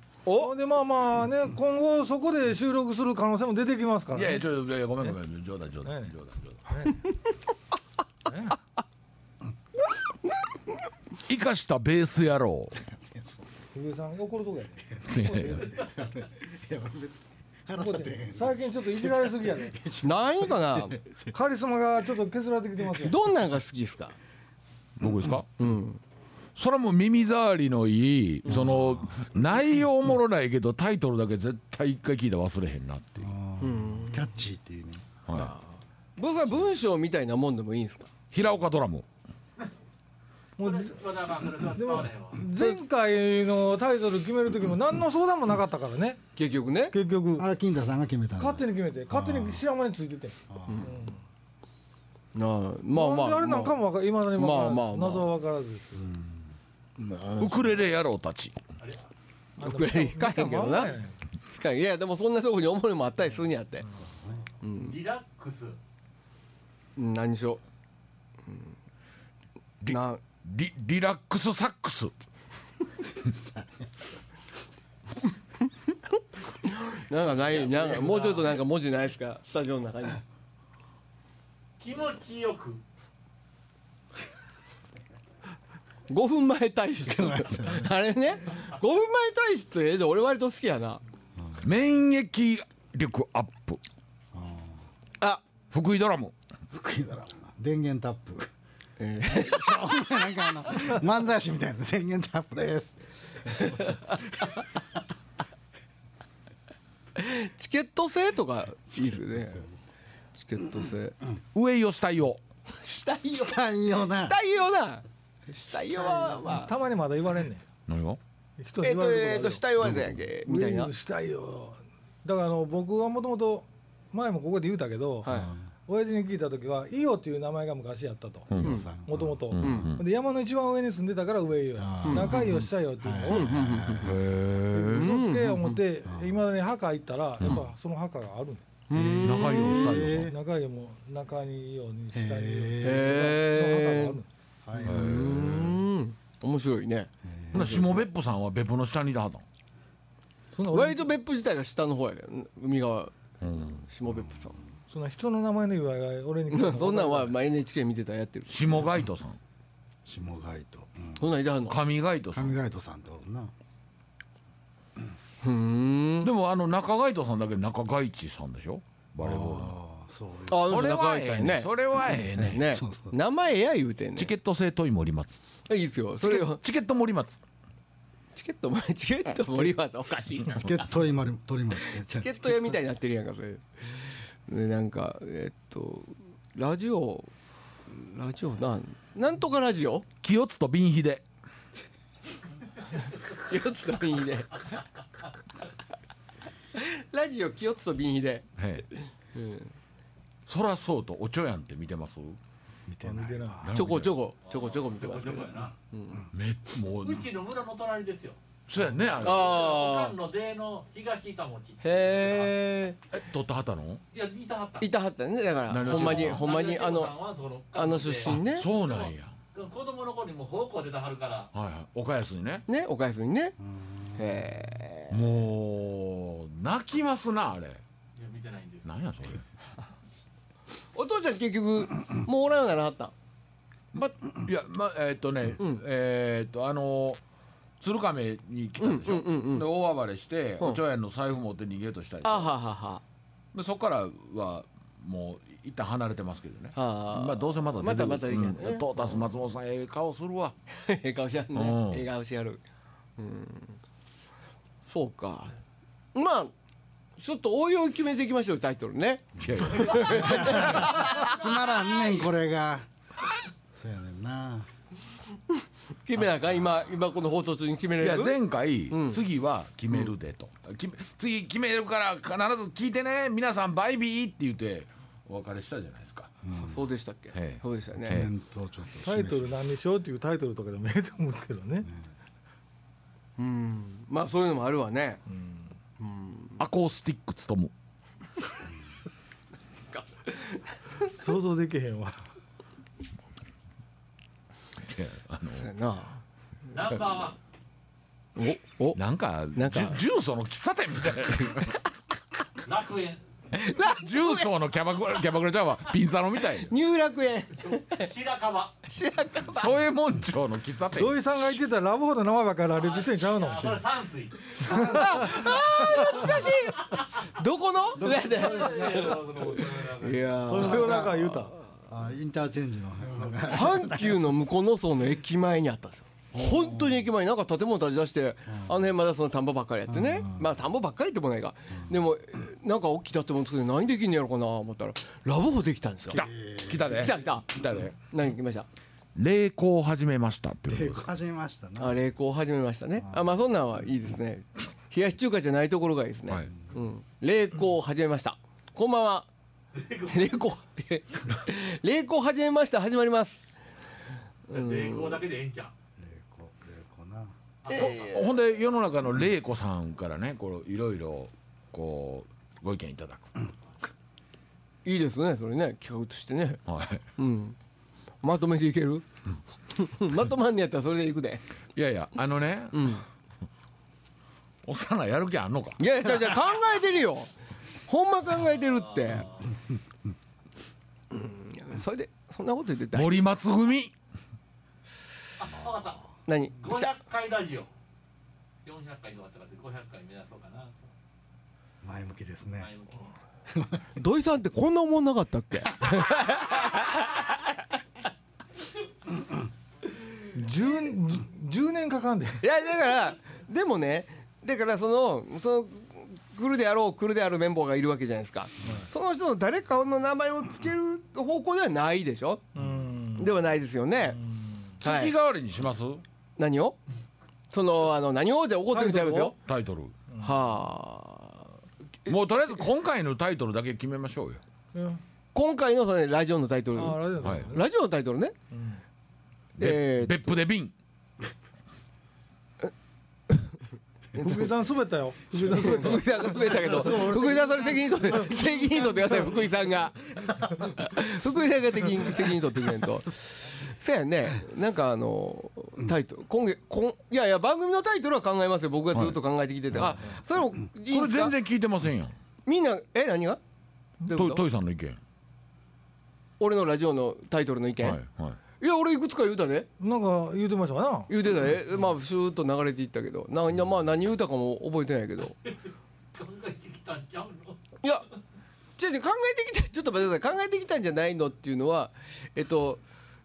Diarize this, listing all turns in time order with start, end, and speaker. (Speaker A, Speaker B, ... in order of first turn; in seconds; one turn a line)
Speaker A: 0.2-0.5
Speaker B: 0.3-4.4
Speaker C: 4.1-6.6
Speaker B: 5.8-6.1
Speaker B: 6.7-7.0
Speaker B: 8.3-8.6
Speaker C: 11.2-12.8
Speaker D: 12.8-13.4
Speaker B: 13.7-15.6
Speaker C: 15.1-15.7
Speaker E: 15.6-15.9
Speaker D: 15.6-21.3
Speaker B: 17.8-19.8
Speaker A: 20.0-21.0
Speaker B: 21.3-23.2
Speaker A: 23.0-24.1
Speaker C: 25.0-25.5
Speaker A: 25.6-26.0
Speaker C: 26.6-33.3
Speaker D: 28.5-29.1
Speaker D: 33.2-35.0
Speaker A: 33.6-34.3
Speaker C: 35.3-35.5
Speaker A: 35.3-38.1
Speaker C: 38.3-39.0
Speaker B: 40.6-41.0
Speaker E: 40.6-42.4
Speaker B: 41.7-46.2
Speaker A: 46.4-46.9
Speaker B: 46.9-47.5
Speaker D: 47.4-49.6
Speaker B: 48.4-51.2
Speaker D: 50.5-50.9
Speaker A: 52.3-53.8
Speaker B: 52.9-56.1
Speaker A: 54.3-55.3
Speaker D: 55.9-56.5
Speaker A: 57.0-57.5
Speaker D: 57.4-57.6
Speaker C: 57.4-58.6
Speaker E: 58.8-59.1
Speaker A: 59.6-61.0
Speaker B: 59.6-61.1
Speaker A: 61.5-63.9
Speaker A: 64.6-65.0
Speaker E: 64.8-65.8
Speaker A: 67.0-67.6
Speaker A: 68.5-68.7
Speaker C: 69.8-72.1
Speaker A: 69.8-70.2
Speaker D: 73.2-73.8
Speaker A: 76.6-80.2
Speaker E: 77.4-78.6
Speaker E: 81.8-82.8
Speaker A: 86.1-91.0
Speaker D: 87.0-87.9
Speaker C: 91.6-93.8
Speaker D: 94.3-94.8
Speaker C: 95.7-96.3
Speaker D: 96.7-98.5
Speaker A: 99.0-100.2
Speaker D: 99.3-104.6
Speaker A: 103.7-104.2
Speaker A: 107.2-109.7
Speaker A: 110.3-111.2
Speaker C: 111.5-112.4
Speaker A: 112.7-116.7
Speaker D: 113.3-114.4
Speaker B: 116.4-117.6
Speaker C: 117.9-118.2
Speaker B: 118.6-119.6
Speaker A: 118.8-120.9
Speaker B: 120.4-125.3
Speaker A: 125.2-125.5
Speaker D: 125.3-125.6
Speaker B: 125.9-128.5
Speaker C: 128.5-128.8
Speaker D: 128.5-129.8
Speaker A: 128.6-128.9
Speaker B: 129.0-133.6
Speaker C: 129.5-130.0
Speaker A: 129.6-129.9
Speaker D: 131.8-134.2
Speaker A: 132.0-132.4
Speaker A: 133.3-134.1
Speaker C: 134.0-135.1
Speaker B: 134.7-138.7
Speaker A: 134.9-135.8
Speaker D: 136.0-136.4
Speaker A: 138.9-139.9
Speaker D: 138.9-140.3
Speaker C: 139.2-140.3
Speaker B: 140.0-144.3
Speaker D: 142.1-143.3
Speaker A: 142.8-144.2
Speaker D: 144.6-145.5
Speaker C: 144.8-145.8
Speaker A: 144.8-148.0
Speaker D: 147.2-147.8
Speaker C: 147.5-149.4
Speaker B: 150.5-151.1
Speaker A: 150.7-154.6
Speaker C: 153.4-153.8
Speaker B: 154.9-157.3
Speaker A: 156.5-158.7
Speaker C: 158.5-159.4
Speaker D: 160.1-161.2
Speaker A: 161.2-161.8
Speaker C: 161.7-162.6
Speaker D: 162.3-163.5
Speaker A: 165.4-166.3
Speaker C: 166.2-169.8
Speaker D: 169.2-170.7
Speaker A: 170.5-171.7
Speaker C: 170.7-172.7
Speaker A: 172.3-174.3
Speaker D: 172.7-173.2
Speaker C: 174.2-175.4
Speaker A: 175.7-176.6
Speaker C: 176.2-177.4
Speaker A: 178.3-180.8
Speaker D: 180.5-182.6
Speaker A: 182.0-187.3
Speaker A: 187.9-190.1
Speaker C: 190.2-191.2
Speaker A: 193.2-194.8
Speaker A: 196.7-198.5
Speaker C: 198.6-198.8
Speaker A: 199.0-199.7
Speaker C: 200.5-202.4
Speaker D: 202.9-203.7
Speaker B: 203.0-203.7
Speaker C: 203.6-204.2
Speaker A: 203.7-206.2
Speaker E: 204.4-205.7
Speaker C: 206.3-207.3
Speaker E: 207.0-212.6
Speaker C: 208.7-209.5
Speaker A: 209.2-210.1
Speaker A: 211.8-213.0
Speaker C: 213.1-214.0
Speaker E: 214.1-214.9
Speaker A: 214.8-217.1
Speaker C: 215.7-216.4
Speaker E: 215.8-221.5
Speaker A: 217.7-218.7
Speaker C: 218.3-219.3
Speaker C: 221.5-222.6
Speaker A: 222.7-223.6
Speaker A: 224.2-225.2
Speaker C: 225.1-227.8
Speaker E: 228.2-228.9
Speaker C: 228.8-229.4
Speaker A: 230.9-233.1
Speaker C: 234.0-237.2
Speaker C: 237.8-242.5
Speaker A: 238.8-239.7
Speaker A: 242.2-243.0
Speaker C: 243.5-250.5
Speaker A: 246.7-249.2
Speaker A: 250.7-252.6
Speaker C: 251.5-252.0
Speaker A: 253.2-253.8
Speaker A: 254.8-255.6
Speaker A: 256.1-256.5
Speaker A: 257.2-261.3
Speaker C: 259.4-260.8
Speaker D: 260.2-262.9
Speaker E: 260.7-262.2
Speaker D: 263.7-264.7
Speaker A: 265.5-268.4
Speaker C: 268.0-276.3
Speaker A: 268.9-269.2
Speaker D: 276.4-276.8
Speaker A: 276.6-278.2
Speaker C: 277.3-278.3
Speaker D: 278.0-279.6
Speaker B: 279.0-281.9
Speaker A: 283.4-285.2
Speaker B: 285.3-285.7
Speaker A: 286.0-286.6
Speaker C: 286.6-287.7
Speaker A: 289.9-291.1
Speaker B: 291.1-292.3
Speaker C: 294.9-295.7
Speaker A: 295.5-296.2
Speaker E: 296.7-297.4
Speaker A: 298.4-299.0
Speaker C: 298.9-301.8
Speaker A: 299.5-300.0
Speaker E: 302.6-303.2
Speaker A: 303.5-304.5
Speaker C: 303.8-306.7
Speaker A: 306.6-308.1
Speaker E: 307.6-308.8
Speaker A: 308.9-309.7
Speaker C: 309.5-311.6
Speaker B: 310.9-313.8
Speaker E: 312.7-314.8
Speaker A: 314.6-319.1
Speaker D: 314.6-315.2
Speaker B: 314.7-315.5
Speaker E: 316.1-317.0
Speaker D: 318.0-319.1
Speaker E: 318.3-320.6
Speaker A: 319.9-321.3
Speaker D: 320.5-324.3
Speaker B: 320.5-321.5
Speaker A: 323.4-336.2
Speaker D: 326.3-326.9
Speaker D: 329.9-330.4
Speaker D: 336.1-337.1
Speaker C: 336.1-338.0
Speaker A: 336.9-337.5
Speaker A: 338.1-338.7
Speaker C: 339.1-341.0
Speaker D: 340.7-342.0
Speaker A: 341.8-349.3
Speaker E: 349.8-350.3
Speaker A: 350.1-353.4
Speaker A: 354.5-355.2
Speaker E: 354.5-355.7
Speaker D: 356.0-357.3
Speaker E: 357.6-358.0
Speaker A: 357.7-358.3
Speaker C: 357.7-363.3
Speaker A: 364.8-366.6
Speaker C: 366.7-367.1
Speaker A: 367.2-367.6
Speaker A: 368.2-369.1
Speaker A: 369.7-371.4
Speaker C: 371.8-373.0
Speaker A: 372.7-373.0
Speaker C: 374.6-375.8
Speaker A: 375.8-377.3
Speaker A: 377.9-379.3
Speaker E: 379.0-379.5
Speaker A: 381.1-383.3
Speaker C: 382.9-383.9
Speaker E: 385.4-386.1
Speaker A: 386.2-386.9
Speaker E: 386.6-387.7
Speaker E: 388.6-390.9
Speaker D: 391.8-392.7
Speaker E: 392.6-393.1
Speaker D: 393.5-393.8
Speaker A: 393.9-397.0
Speaker E: 395.9-396.7
Speaker B: 400.3-402.4
Speaker A: 402.4-412.4
Speaker B: 412.5-413.3
Speaker A: 413.2-414.2
Speaker B: 414.1-414.7
Speaker A: 414.8-415.1
Speaker C: 414.8-416.0
Speaker A: 416.4-416.8
Speaker A: 417.5-419.3
Speaker B: 418.7-419.3
Speaker C: 419.4-419.9
Speaker B: 420.1-420.4
Speaker A: 420.2-421.5
Speaker C: 422.1-424.4
Speaker B: 424.7-425.0
Speaker A: 425.3-428.3
Speaker B: 426.7-427.6
Speaker C: 427.2-427.5
Speaker B: 428.5-428.8
Speaker C: 429.6-430.7
Speaker A: 429.6-430.4
Speaker A: 434.1-434.5
Speaker B: 434.1-436.7
Speaker A: 435.3-451.3
Speaker D: 436.5-438.6
Speaker D: 440.3-440.7
Speaker C: 450.9-452.1
Speaker A: 452.4-453.4
Speaker A: 454.0-454.4
Speaker C: 454.1-455.0
Speaker A: 456.4-458.0
Speaker C: 457.8-458.4
Speaker A: 458.6-459.7
Speaker B: 459.8-461.1
Speaker A: 461.1-465.4
Speaker E: 466.1-467.6
Speaker A: 468.8-472.8